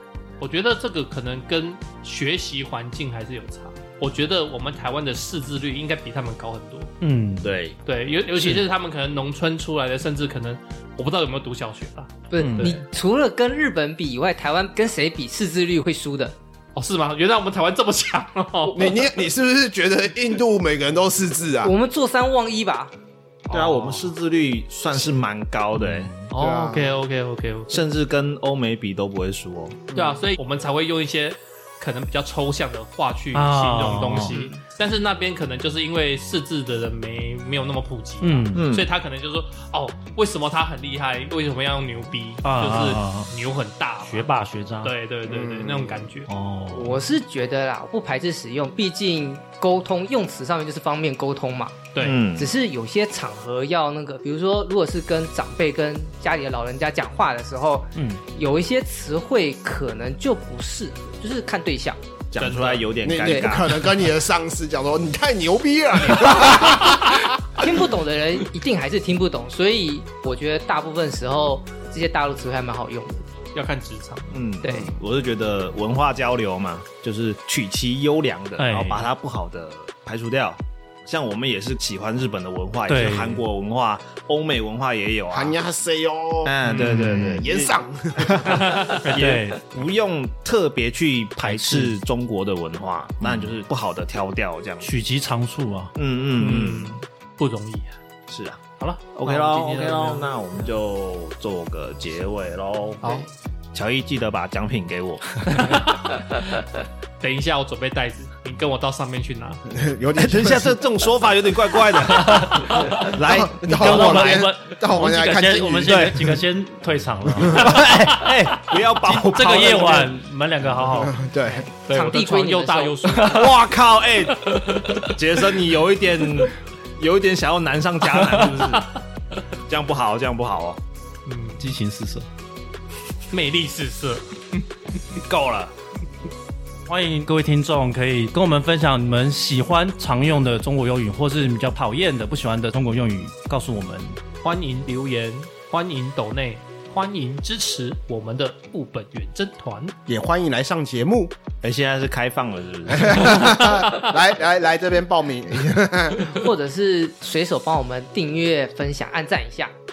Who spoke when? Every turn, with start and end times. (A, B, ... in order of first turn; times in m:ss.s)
0:00.4-0:06.9 A
0:07.0-0:07.5 B
0:07.4-0:07.8 C
0:07.8-0:12.8 A
0:12.3-0:16.3 D
0:12.4-0:12.7 B
0:16.7-0:19.0 A
0:18.7-0:21.7 E
0:21.6-0:22.9 D
0:23.5-0:26.1 C
0:23.5-0:24.0 A
0:25.9-0:26.2 B
0:26.3-0:27.9 A
0:26.3-0:26.9 E
0:27.7-0:29.8 C
0:29.9-0:30.2 E
0:29.9-0:44.3 A
0:33.3-0:34.3 B
0:34.3-0:34.6 C
0:38.2-0:38.6 B
0:38.5-0:38.9 C
0:42.4-0:43.3 B
0:44.0-0:44.9 B
0:44.8-0:46.3 A
0:45.3-0:46.1 E
0:46.3-0:47.1 B
0:46.7-1:02.0 D
0:51.9-0:52.2 A
0:52.0-0:52.5 C
0:58.0-0:58.2 B
1:02.3-1:03.8 C
1:02.4-1:03.0 A
1:03.0-1:07.3 E
1:03.2-1:03.6 D
1:06.0-1:07.3 A
1:07.5-1:13.2 D
1:13.5-1:14.4 A
1:14.3-1:25.5 C
1:14.6-1:14.9 D
1:18.6-1:19.0 B
1:22.9-1:23.4 B
1:25.3-1:28.6 E
1:26.4-1:34.9 C
1:26.6-1:27.2 A
1:26.7-1:27.3 B
1:28.5-1:29.1 A
1:29.0-1:29.6 B
1:31.4-1:31.9 B
1:34.8-1:35.9 B
1:35.9-1:37.0 C
1:36.4-1:38.0 A
1:38.3-1:38.6 C
1:38.8-1:40.3 A
1:39.1-1:45.7 C
1:43.0-1:43.3 A
1:47.2-1:49.6 A
1:49.7-1:50.8 E
1:50.1-1:54.4 C
1:52.2-1:52.7 B
1:53.1-1:56.1 E
1:53.6-1:57.8 B
1:55.8-1:56.4 C
1:57.4-2:00.2 C
1:59.0-2:01.2 B
2:01.0-2:01.7 E
2:01.9-2:03.6 A
2:01.9-2:03.2 D
2:03.1-2:03.5 B
2:03.3-2:04.5 C
2:04.3-2:05.2 A
2:05.1-2:09.0 C
2:09.7-2:10.8 C
2:11.2-2:11.6 A
2:11.6-2:12.2 B
2:13.3-2:14.6 A
2:15.3-2:15.7 C
2:16.9-2:24.2 B
2:24.4-2:29.9 A
2:30.1-2:31.3 E
2:31.6-2:33.6 C
2:32.9-2:36.3 E
2:36.3-2:39.7 D